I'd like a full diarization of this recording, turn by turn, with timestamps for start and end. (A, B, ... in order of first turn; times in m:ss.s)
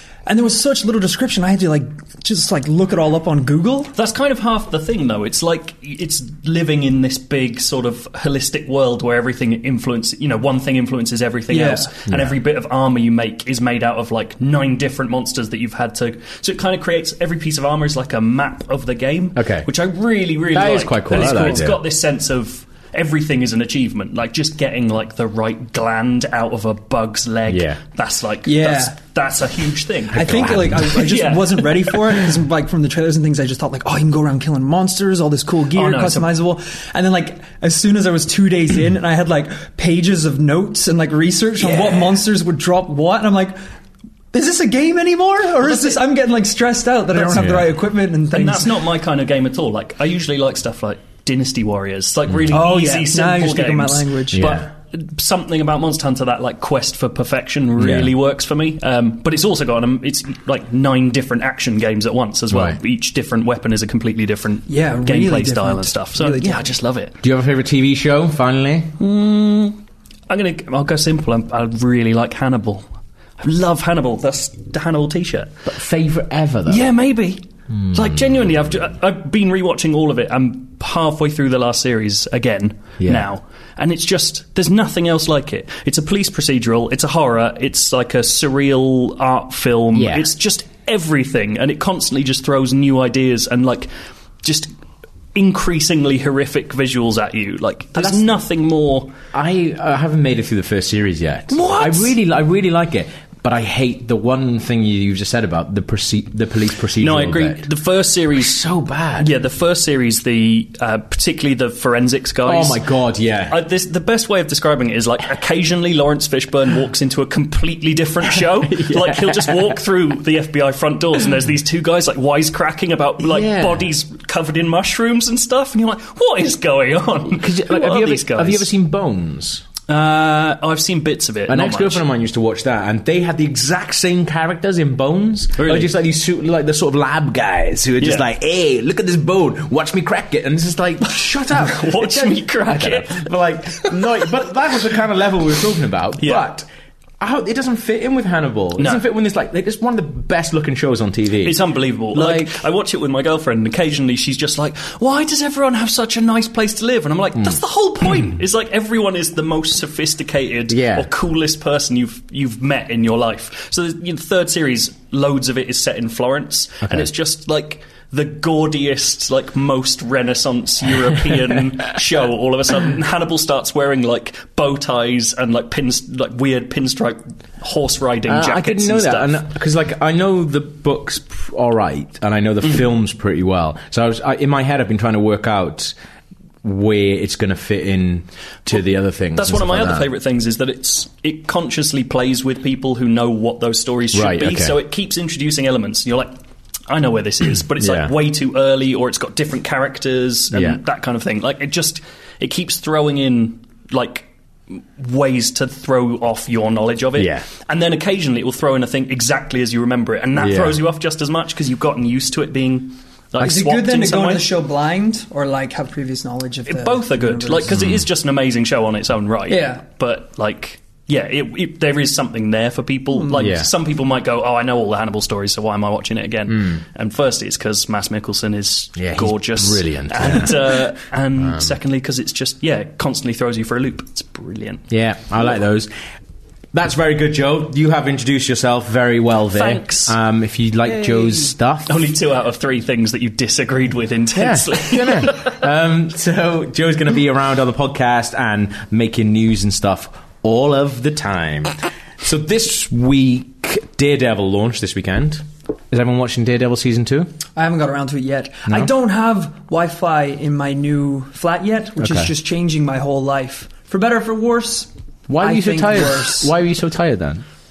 0:00.3-0:03.9 A
0:03.9-0:31.7 B
0:11.5-0:11.9 A
0:12.1-0:12.4 C
0:19.4-0:19.7 C
0:20.5-0:21.8 C
0:27.5-0:27.8 C
0:28.4-0:29.0 A
0:30.1-0:43.6 A
0:30.2-0:30.8 C
0:35.7-0:36.3 B
0:41.6-0:42.0 C
0:44.3-0:48.8 A
0:45.6-0:46.0 B
0:47.2-0:47.6 B
0:47.3-0:47.7 C
0:48.3-1:07.2 B
0:52.5-0:54.5 A
0:54.3-0:54.7 C
0:57.8-0:58.1 C
1:02.5-1:02.8 C
1:04.7-1:06.6 A
1:07.2-1:09.0 C
1:09.0-1:09.8 B
1:10.3-1:12.9 B
1:13.4-1:15.5 B
1:15.6-1:16.9 C
1:16.7-1:17.4 B
1:17.7-1:18.5 C
1:17.9-1:33.9 B
1:23.0-1:23.3 C
1:29.9-1:30.3 C
1:34.4-1:34.7 B
1:35.4-1:39.1 B
1:38.0-1:38.4 C
1:39.3-1:47.7 C
1:41.5-1:42.2 B
1:47.0-1:48.6 B
1:48.3-1:49.3 C
1:49.2-1:52.8 B
1:52.5-1:53.6 C
1:53.5-2:08.7 B
1:58.7-1:59.8 C
2:03.2-2:03.9 C
2:07.3-2:09.6 C
2:09.9-2:12.0 B
2:11.5-2:26.7 C
2:15.6-2:15.9 B
2:18.0-2:18.3 B
2:21.6-2:23.3 B
2:26.2-2:26.5 B
2:27.2-2:32.5 C
2:28.8-2:29.0 B
2:31.4-2:59.4 B
2:40.7-2:41.1 C
2:46.8-2:47.1 C
2:58.3-3:06.0 C
3:06.6-3:10.1 C
3:09.4-3:16.4 B
3:14.1-3:14.8 C
3:16.9-3:34.5 B
3:17.8-3:18.1 C
3:20.5-3:20.8 C
3:27.2-3:27.5 C
3:30.4-3:30.8 C
3:33.4-3:37.8 A
3:36.7-3:54.9 B
3:37.7-3:38.0 C
3:39.5-3:39.8 A
3:43.1-3:43.5 A
3:43.3-3:43.7 C
3:46.5-3:46.8 C
3:49.0-3:51.8 C
3:54.9-3:55.9 C
3:56.7-4:02.1 C
3:59.5-4:00.2 B
4:01.9-4:05.6 B
4:04.4-4:17.3 C
4:17.6-4:24.9 A
4:18.7-4:18.9 C
4:22.0-4:22.3 C
4:25.3-4:27.4 C
4:25.4-4:26.5 A